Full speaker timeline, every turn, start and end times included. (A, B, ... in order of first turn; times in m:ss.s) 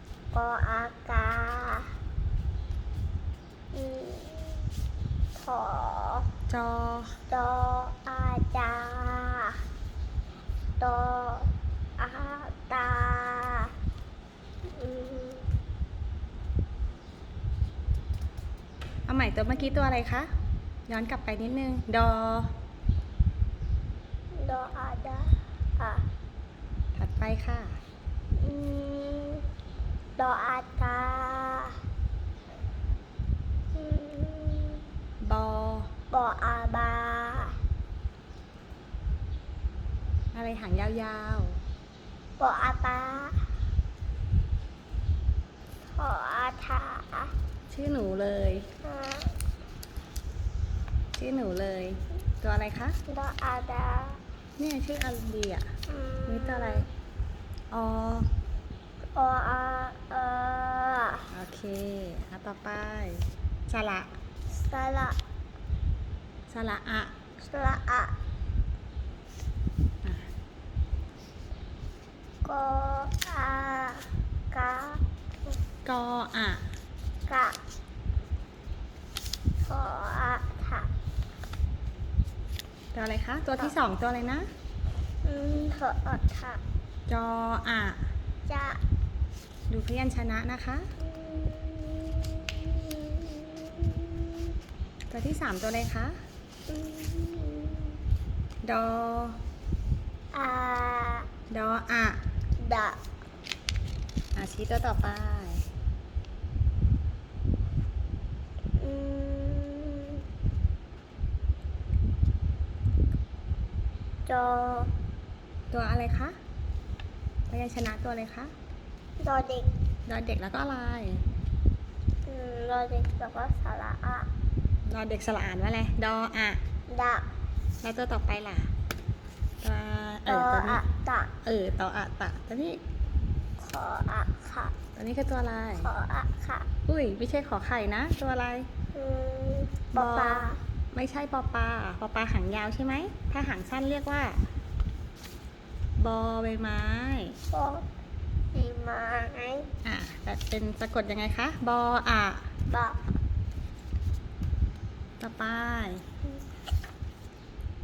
0:00.3-0:01.9 A
0:03.7-0:04.7 A
0:05.4-0:06.3 A
0:06.5-0:07.1 B
0:07.3-0:09.6 A
0:10.8-0:13.7 A
0:14.7-0:15.5 A
0:19.1-0:20.3 B
0:20.9-0:22.5 B
0:24.4-0:26.0 A
0:27.0-0:27.7 B
0:28.4-0:29.4 A
0:30.2-0:31.8 A
0:33.7-0:34.8 A
0:35.2-0:35.9 B
0:36.1-0:37.6 A
0:40.3-0:41.6 B
0:42.4-0:43.4 A
0:46.0-0:47.3 A
0:47.7-0:48.6 B
0:48.8-0:49.3 A
0:51.2-0:53.0 B
0:53.1-0:54.2 A
0:54.6-0:55.7 B
0:55.9-0:56.9 A
0:56.3-0:56.8 B
0:57.7-0:58.3 B
0:59.1-1:01.3 A
1:01.3-1:04.1 B
1:04.5-1:05.2 A
1:06.5-1:07.2 B
1:07.4-1:08.2 A
1:12.4-1:15.0 A
1:15.8-1:16.6 B
1:17.3-1:17.6 A
1:19.6-1:20.9 A
1:22.9-1:24.5 B
1:25.2-1:26.6 A
1:27.1-1:28.0 B
1:28.5-1:28.8 A
1:29.7-1:30.9 B
1:31.0-1:34.4 A
1:35.1-1:36.2 B
1:36.7-1:38.0 A
1:38.6-1:39.4 B
1:40.3-1:41.3 A
1:41.5-1:42.2 B
1:42.6-1:43.0 A
1:44.4-1:45.7 B
1:48.8-1:50.2 A
1:54.3-1:54.9 A
1:55.7-1:56.4 B
1:57.5-1:58.5 B
1:59.2-1:59.7 A
2:00.1-2:01.2 B
2:02.3-2:04.3 A
2:04.9-2:06.6 B
2:06.9-2:07.3 A
2:07.8-2:08.7 B
2:09.6-2:10.8 B
2:10.3-2:11.3 A
2:11.4-2:12.8 B
2:13.6-2:14.8 A
2:15.0-2:15.9 B
2:15.8-2:16.7 A
2:16.9-2:18.7 B
2:18.9-2:20.6 A
2:19.9-2:24.4 B
2:26.0-2:27.4 B
2:27.5-2:27.9 A
2:28.5-2:29.7 A
2:29.8-2:32.4 B
2:32.7-2:33.0 A
2:35.2-2:36.0 B